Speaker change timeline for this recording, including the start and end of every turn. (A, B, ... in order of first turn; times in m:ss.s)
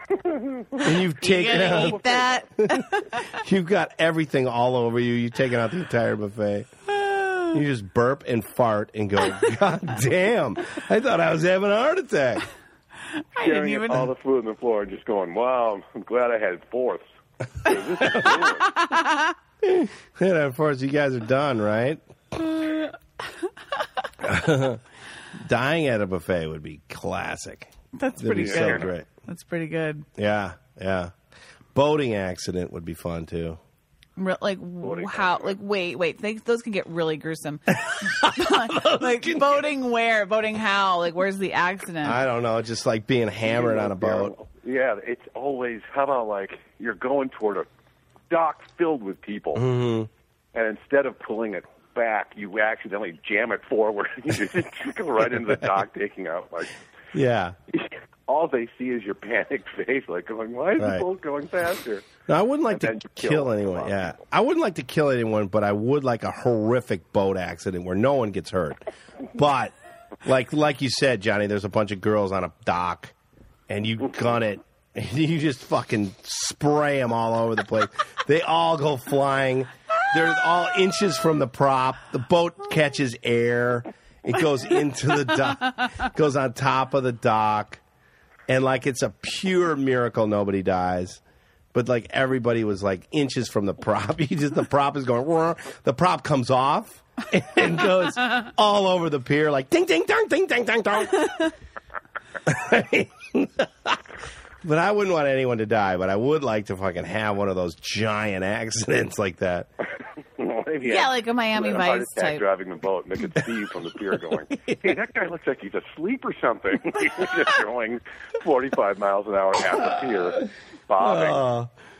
0:00.3-0:00.8 A
0:00.8-0:02.0 B
0:01.2-0:03.4 C
0:01.5-0:02.3 A
0:02.6-0:06.7 B
0:07.0-0:07.6 C
0:07.5-0:12.5 B
0:13.1-0:14.1 C
0:13.4-0:17.0 A
0:17.6-0:18.7 A
0:17.7-0:19.4 C
0:18.0-0:18.4 B
0:19.6-0:22.0 B
0:22.4-0:22.9 C
0:24.2-0:24.8 B
0:25.3-0:29.1 B
0:28.0-0:30.1 C
0:28.4-0:28.9 A
0:30.2-0:31.1 B
0:31.7-0:33.6 B
0:34.2-0:42.2 C
0:34.8-0:35.6 A
0:37.9-0:39.6 B
0:42.0-0:44.3 B
0:43.5-0:47.7 A
0:48.3-0:49.7 A
0:49.6-0:50.1 B
0:50.5-0:56.8 A
0:57.1-0:57.6 B
0:57.7-1:02.1 A
1:00.8-1:01.1 B
1:02.3-1:13.1 B
1:02.7-1:04.2 A
1:13.7-1:27.8 B
1:28.5-1:31.2 B
1:31.7-1:41.5 B
1:42.4-1:44.0 B
1:44.6-1:49.7 B
1:50.4-2:01.4 A
1:50.8-1:52.4 C
1:54.1-1:55.0 B
2:01.0-2:01.7 B